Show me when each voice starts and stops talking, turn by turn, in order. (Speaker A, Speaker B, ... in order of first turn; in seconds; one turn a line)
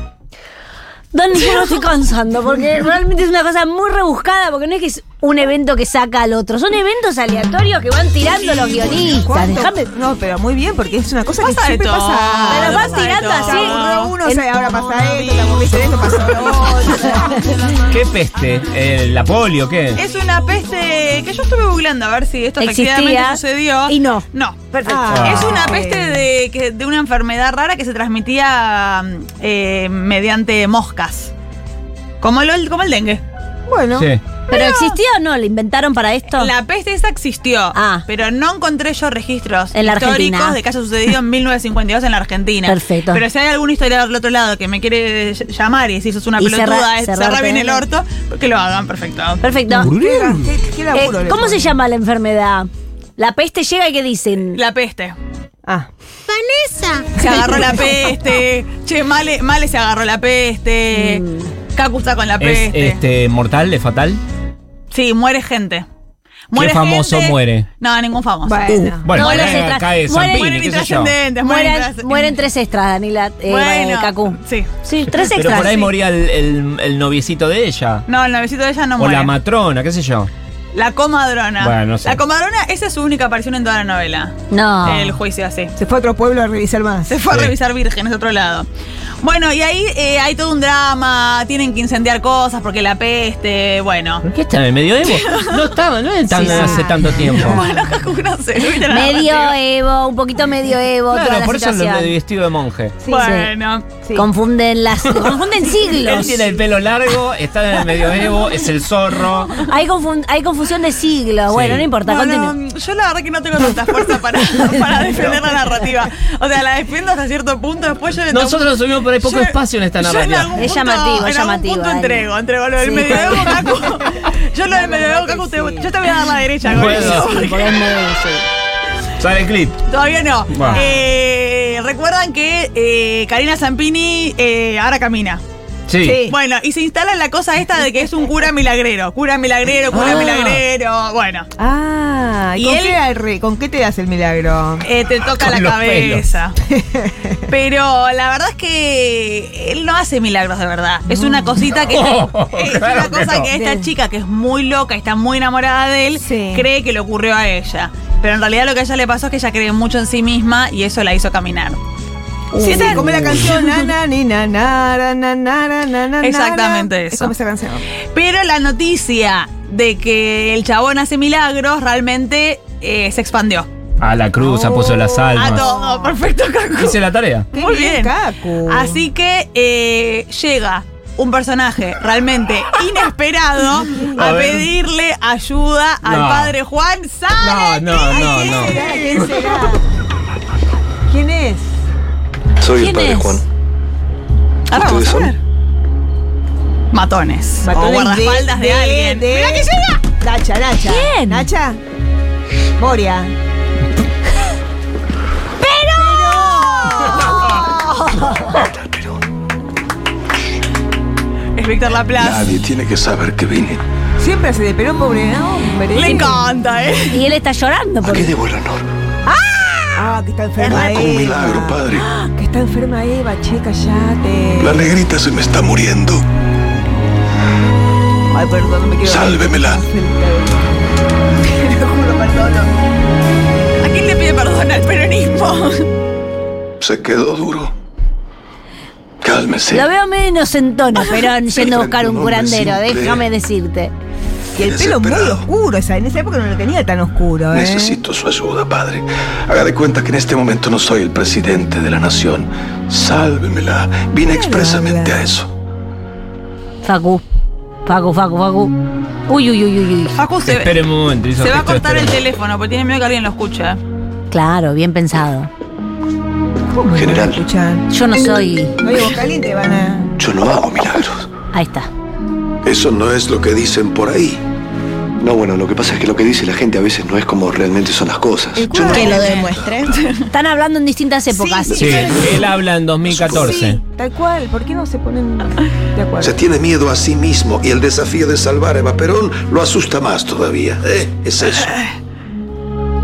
Speaker A: 1.1-9.9
Speaker B: 8.4-17.4
Speaker C: 11.4-14.1
Speaker A: 12.5-14.6
Speaker D: 17.9-20.0
Speaker C: 19.9-24.6
Speaker A: 22.6-25.2
Speaker B: 24.9-26.2
Speaker D: 25.1-25.6
Speaker C: 25.2-31.3
Speaker C: 32.2-33.2
Speaker B: 33.7-34.1
Speaker A: 34.5-36.5
Speaker C: 34.5-34.9
Speaker C: 36.3-49.4
Speaker A: 37.7-38.0
Speaker A: 39.7-40.6
Speaker A: 42.6-43.2
Speaker A: 46.4-47.8
Speaker A: 49.4-50.0
Speaker B: 49.7-51.8
Speaker D: 49.9-50.3
Speaker A: 50.9-54.6
Speaker C: 54.5-55.1
Speaker B: 57.2-58.0
Speaker C: 57.2-63.0
Speaker A: 60.9-61.5
Speaker D: 62.4-64.2
Speaker C: 64.9-65.8
Speaker C: 66.5-72.3
Speaker D: 66.5-67.7
Speaker B: 68.5-69.1
Speaker D: 68.7-71.1
Speaker A: 69.1-70.5
Speaker A: 71.4-75.9
Speaker C: 73.5-74.7
Speaker D: 75.2-78.0
Speaker C: 78.1-79.3
Speaker D: 79.0-80.3
Speaker C: 80.7-85.7
Speaker D: 81.6-82.2
Speaker A: 84.5-85.2
Speaker B: 85.8-87.2
Speaker C: 87.1-88.7
Speaker D: 87.3-87.5
Speaker C: 89.2-94.2
Speaker D: 94.2-97.7
Speaker C: 95.0-95.6
Speaker B: 96.3-97.6
Speaker A: 96.4-96.7
Speaker C: 97.3-99.5
Speaker A: 98.9-102.1
Speaker D: 101.1-103.0
Speaker B: 103.0-103.4
Speaker C: 103.0-103.8
Speaker A: 103.1-103.5
Speaker B: 104.0-104.3
Speaker A: 104.1-106.4
Speaker D: 106.0-109.6
Speaker A: 109.6-112.5
Speaker D: 111.5-111.9
Speaker C: 112.0-127.8
Speaker D: 118.3-120.6
Speaker A: 120.6-122.3
Speaker A: 122.8-123.6
Speaker B: 123.0-123.9
Speaker B: 124.6-126.3
Speaker D: 126.7-127.9
Speaker A: 127.3-128.4
Speaker D: 129.2-129.8
Speaker C: 129.9-135.4
Speaker D: 130.5-130.8
Speaker B: 130.7-131.0
Speaker D: 135.9-136.2
Speaker B: 136.0-136.3
Speaker C: 136.3-141.5
Speaker B: 139.9-140.5
Speaker B: 141.6-144.8
Speaker C: 142.6-143.0
Speaker C: 144.8-146.5
Speaker D: 145.3-146.3
Speaker B: 146.6-147.5
Speaker C: 147.5-161.8
Speaker B: 151.1-151.7
Speaker D: 151.9-153.5
Speaker B: 153.5-153.9
Speaker B: 156.2-156.7
Speaker B: 162.5-167.8
Speaker C: 162.6-163.7
Speaker C: 166.2-167.3
Speaker C: 168.1-173.7
Speaker D: 174.0-175.7
Speaker B: 174.4-176.2
Speaker C: 175.3-177.0
Speaker D: 176.8-177.5
Speaker B: 177.5-179.0
Speaker C: 177.5-178.2
Speaker C: 178.7-189.0
Speaker B: 183.7-184.3
Speaker D: 184.2-184.7
Speaker D: 186.0-186.6
Speaker D: 187.4-188.8
Speaker B: 188.1-189.8
Speaker B: 191.1-191.8
Speaker E: 192.6-193.4
Speaker A: 192.8-193.4
Speaker C: 194.7-195.4
Speaker E: 194.7-195.3
Speaker C: 196.9-200.0
Speaker B: 197.6-201.8
Speaker A: 200.8-201.5
Speaker B: 202.8-203.3
Speaker B: 205.9-207.6
Speaker C: 206.0-207.3
Speaker A: 207.2-208.6
Speaker E: 208.4-209.2
Speaker C: 211.6-212.5
Speaker E: 212.2-213.8
Speaker B: 214.2-216.4
Speaker C: 215.9-217.2
Speaker A: 217.1-218.3
Speaker E: 218.0-218.8
Speaker B: 219.9-224.9
Speaker E: 220.7-222.1
Speaker E: 224.6-226.2
Speaker B: 228.3-230.6
Speaker E: 229.0-229.8
Speaker B: 231.4-232.7
Speaker C: 233.8-235.9
Speaker E: 236.8-237.7
Speaker E: 239.2-239.9
Speaker A: 239.7-243.9
Speaker E: 241.4-243.2
Speaker B: 244.6-248.0
Speaker E: 244.6-245.5
Speaker E: 247.5-255.5
Speaker B: 254.2-255.2
Speaker A: 256.8-257.2
Speaker A: 257.9-258.7
Speaker A: 259.3-260.2
Speaker C: 260.2-260.8
Speaker D: 260.4-262.1
Speaker C: 261.4-263.8
Speaker A: 264.3-265.5
Speaker B: 266.7-267.9
Speaker E: 266.9-267.4
Speaker A: 267.9-268.8
Speaker B: 268.8-270.1
Speaker E: 270.2-271.3
Speaker A: 271.5-271.9
Speaker E: 272.6-274.4
Speaker E: 275.2-279.8
Speaker B: 278.6-279.9
Speaker C: 278.8-280.2
Speaker A: 280.3-282.2
Speaker B: 281.3-282.5
Speaker D: 281.7-283.8
Speaker E: 283.0-283.6
Speaker B: 283.2-286.4
Speaker E: 286.2-291.7